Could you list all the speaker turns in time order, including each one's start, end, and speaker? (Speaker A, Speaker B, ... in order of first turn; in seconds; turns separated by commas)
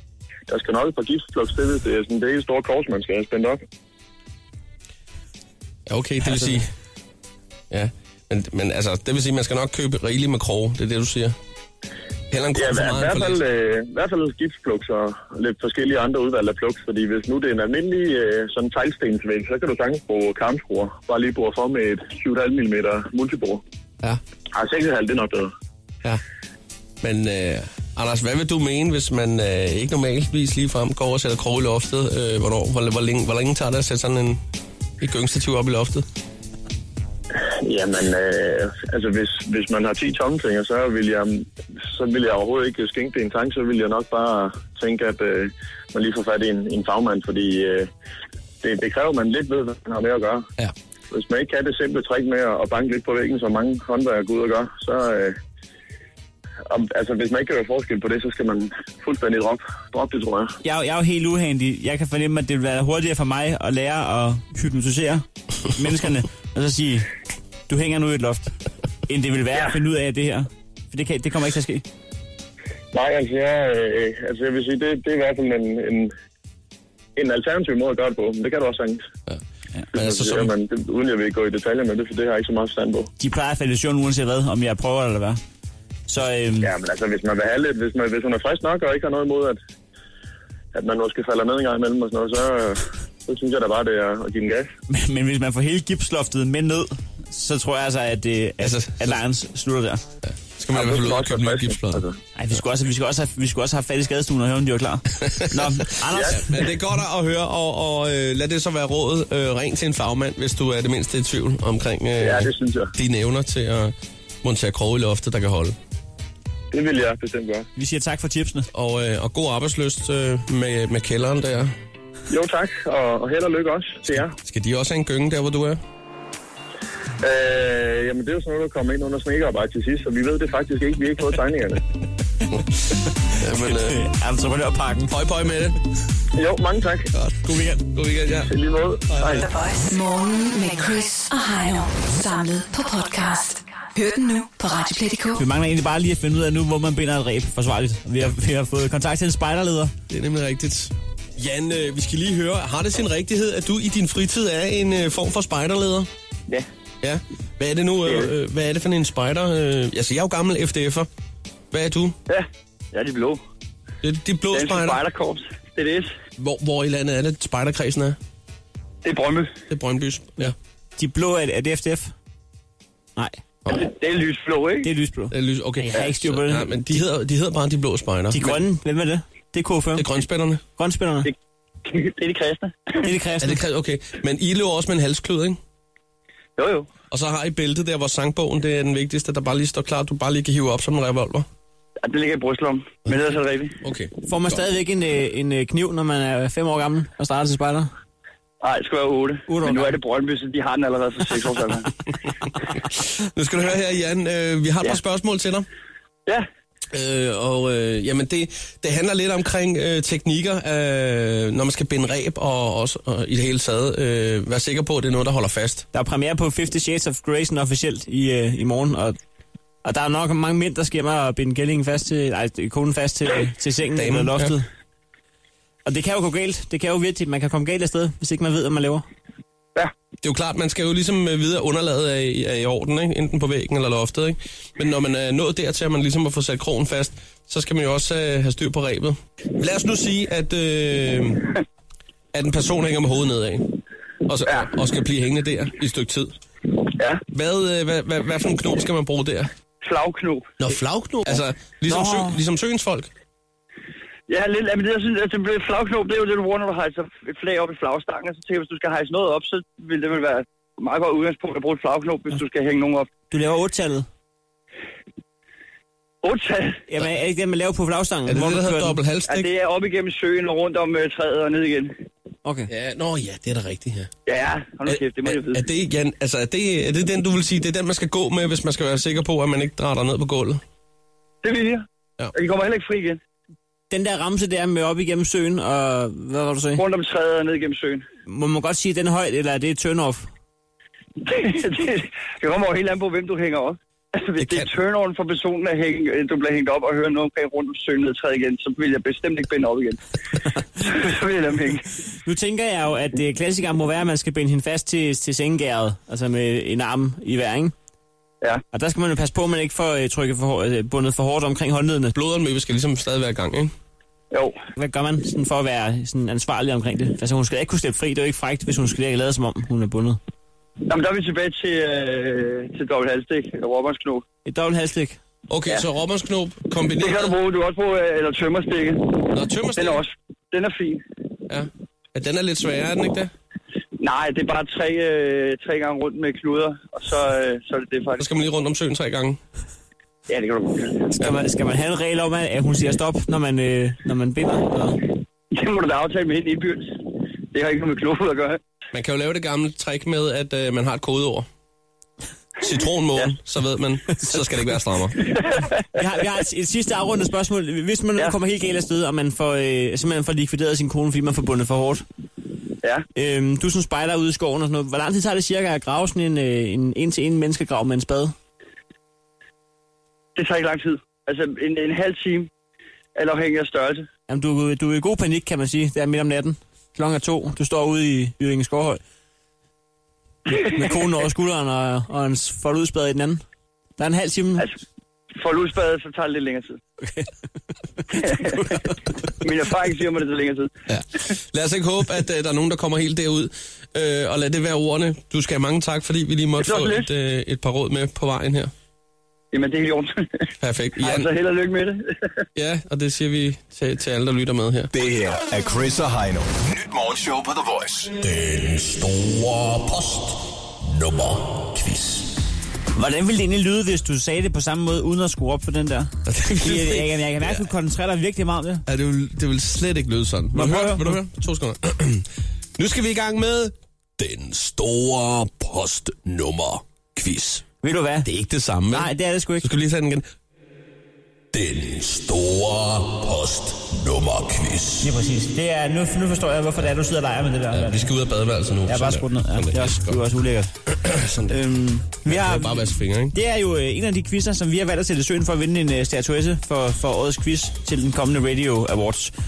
Speaker A: 0.5-3.6, Speaker B: 5.9-6.7, Speaker B: 7.7-11.4, Speaker B: 12.3-13.4, Speaker A: 12.5-23.6, Speaker A: 24.5-25.5, Speaker B: 27.0-34.4, Speaker B: 35.0-36.1, Speaker A: 37.3-47.9, Speaker A: 48.6-50.5, Speaker A: 51.1-55.4, Speaker A: 56.7-60.6, Speaker C: 60.6-67.1, Speaker C: 67.7-68.5, Speaker C: 69.1-71.8, Speaker A: 72.9-76.1, Speaker A: 77.2-79.0, Speaker B: 79.9-80.5, Speaker A: 79.9-83.1, Speaker C: 83.2-85.4, Speaker C: 86.1-86.7, Speaker A: 86.6-89.6, Speaker A: 90.7-94.7, Speaker C: 94.9-100.0, Speaker B: 98.6-99.2, Speaker B: 100.2-102.0, Speaker A: 100.7-102.2, Speaker C: 102.4-106.7, Speaker B: 105.2-115.8, Speaker A: 112.2-112.9, Speaker A: 116.7-117.7, Speaker C: 117.8-118.7, Speaker B: 118.7-121.7, Speaker A: 122.3-124.3, Speaker B: 124.1-125.8, Speaker A: 127.2-131.8, Speaker B: 133.3-134.0, Speaker C: 133.6-135.1, Speaker B: 135.1-135.8, Speaker A: 136.3-137.1, Speaker B: 137.2-138.5, Speaker C: 137.4-137.8, Speaker A: 138.4-139.5, Speaker D: 139.3-145.4, Speaker C: 145.4-149.9, Speaker B: 150.1-156.1, Speaker B: 157.0-161.1, Speaker B: 161.7-162.2, Speaker E: 162.3-163.4, Speaker B: 164.0-165.0, Speaker E: 164.5-166.1, Speaker B: 166.4-168.2, Speaker E: 169.0-169.5, Speaker B: 169.7-170.6, Speaker C: 171.0-172.1, Speaker E: 173.7-174.9, Speaker C: 174.8-176.9, Speaker B: 175.3-178.7, Speaker C: 178.3-180.1, Speaker B: 180.0-180.6, Speaker C: 180.8-181.3, Speaker E: 181.8-183.1, Speaker C: 183.0-183.6, Speaker B: 183.4-185.6, Speaker E: 186.6-186.9, Speaker B: 187.1-191.5, Speaker E: 192.0-193.8, Speaker B: 193.8-194.6, Speaker C: 194.3-197.9, Speaker E: 198.6-201.9, Speaker C: 199.5-199.9, Speaker B: 202.9-205.7, Speaker B: 206.9-215.9, Speaker C: 215.9-219.2, Speaker C: 219.8-224.7, Speaker B: 224.0-224.6, Speaker C: 225.8-229.1, Speaker B: 230.2-241.5, Speaker B: 242.3-243.7, Speaker B: 244.3-246.3, Speaker B: 247.3-249.5, Speaker E: 249.8-250.5, Speaker B: 250.6-253.1, Speaker C: 251.9-252.4, Speaker E: 254.3-263.1, Speaker C: 263.3-264.1, Speaker E: 266.2-266.8, Speaker C: 266.9-269.0, Speaker B: 268.3-269.5, Speaker E: 269.3-271.9, Speaker C: 272.4-272.7, Speaker B: 272.7-274.1, Speaker E: 274.3-275.6, Speaker B: 274.9-280.6, Speaker E: 281.4-283.2, Speaker C: 283.9-286.8, Speaker E: 286.8-288.1, Speaker C: 288.3-290.3, Speaker E: 291.2-300.0, Speaker B: 294.4-294.7, Speaker E: 300.8-301.9, Speaker C: 302.2-307.7, Speaker C: 308.7-312.1, Speaker B: 312.1-313.7, Speaker E: 314.3-314.6, Speaker C: 314.8-320.2, Speaker E: 320.9-324.2, Speaker C: 324.4-325.2, Speaker B: 325.5-327.4, Speaker E: 327.0-331.0, Speaker B: 329.3-330.0, Speaker B: 331.5-333.3, Speaker E: 334.0-338.3, Speaker B: 338.2-339.4, Speaker E: 340.3-341.0, Speaker C: 341.1-345.0, Speaker E: 345.5-347.0, Speaker E: 347.5-348.6, Speaker B: 348.9-351.5, Speaker B: 352.6-355.3, Speaker E: 355.4-355.6, Speaker C: 356.0-362.1, Speaker C: 363.1-368.3, Speaker E: 370.4-372.5, Speaker E: 373.1-374.1, Speaker C: 374.3-379.0, Speaker C: 380.6-383.4, Speaker C: 384.0-384.7, Speaker E: 385.4-386.8, Speaker C: 387.0-387.3, Speaker E: 388.1-388.9, Speaker C: 388.3-388.9, Speaker E: 389.4-390.7, Speaker B: 390.9-398.7, Speaker E: 396.6-397.1, Speaker E: 399.5-402.4, Speaker B: 400.6-401.3, Speaker B: 402.6-404.9, Speaker F: 404.9-408.2, Speaker B: 408.3-408.7, Speaker B: 409.9-412.1, Speaker C: 412.9-418.9, Speaker B: 416.3-417.7, Speaker B: 418.9-427.7, Speaker C: 420.5-421.2, Speaker C: 427.8-428.3, Speaker B: 428.2-430.3, Speaker C: 428.9-429.7, Speaker B: 431.5-435.1, Speaker C: 435.0-438.1, Speaker B: 437.7-440.2, Speaker C: 438.9-440.7, Speaker B: 440.9-441.6, Speaker C: 441.5-449.3, Speaker B: 442.2-443.4